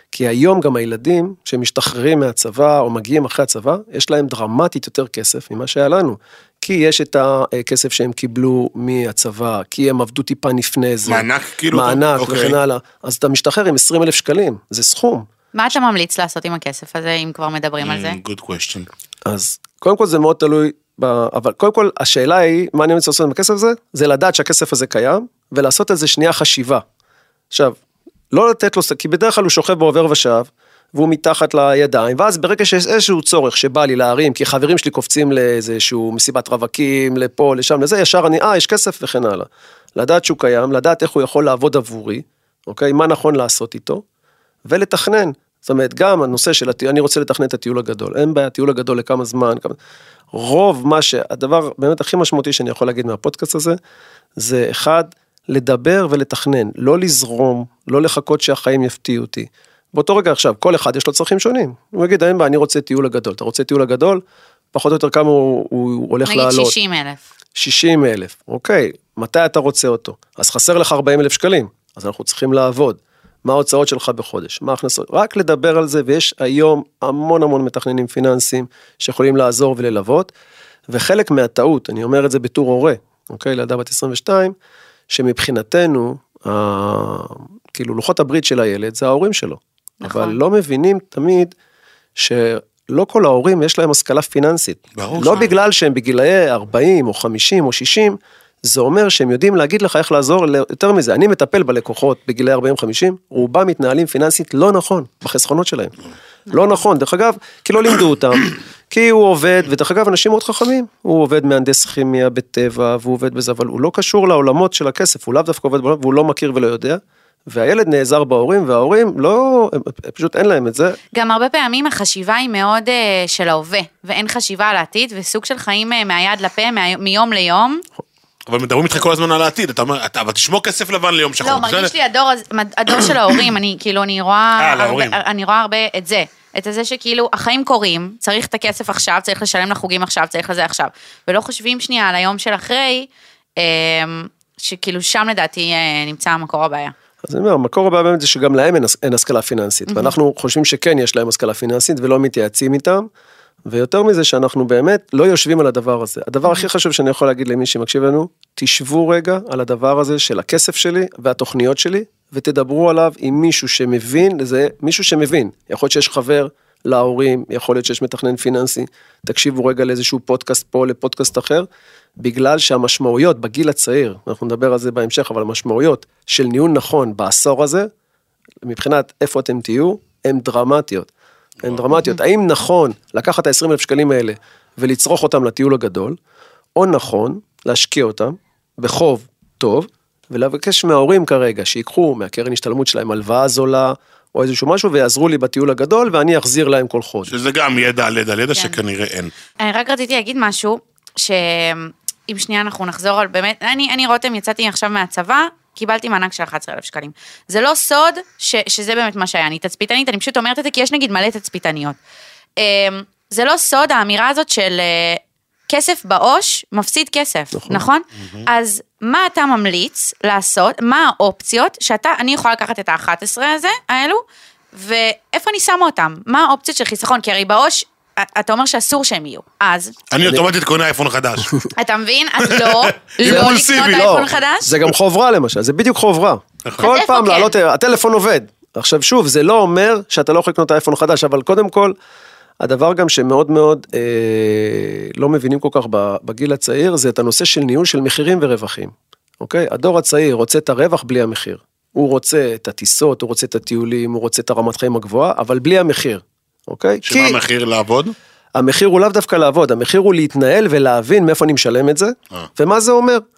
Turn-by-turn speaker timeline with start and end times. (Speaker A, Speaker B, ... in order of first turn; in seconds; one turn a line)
Speaker A: 0.1-15.3
Speaker B: 11.1-12.6
Speaker C: 15.5-18.2
Speaker B: 17.8-18.9
Speaker A: 19.3-26.8
Speaker A: 28.3-44.0
Speaker A: 44.6-49.8
Speaker A: 50.3-53.8
Speaker A: 54.4-64.2
Speaker A: 64.7-66.7
Speaker C: 66.2-67.2
Speaker A: 67.5-80.3
Speaker A: 80.9-84.5
Speaker A: 85.1-91.5
Speaker C: 90.0-90.4
Speaker A: 92.2-105.9
Speaker B: 95.0-95.5
Speaker A: 106.5-121.0
Speaker C: 121.1-127.8
Speaker B: 128.5-131.9
Speaker C: 131.4-146.9
Speaker B: 134.6-135.2
Speaker A: 147.2-153.1
Speaker C: 149.9-150.1
Speaker A: 153.7-171.7
Speaker A: 172.2-177.9
Speaker A: 178.6-181.1
Speaker A: 181.6-186.2
Speaker A: 186.8-197.3
Speaker B: 197.3-199.3
Speaker C: 199.6-212.0
Speaker C: 212.6-224.2
Speaker A: 217.5-217.8
Speaker C: 224.7-229.9
Speaker B: 230.1-231.6
Speaker C: 231.8-234.7
Speaker B: 232.6-234.3
Speaker A: 233.2-241.9
Speaker C: 236.8-237.5
Speaker A: 242.6-257.4
Speaker B: 257.0-258.1
Speaker A: 258.6-263.2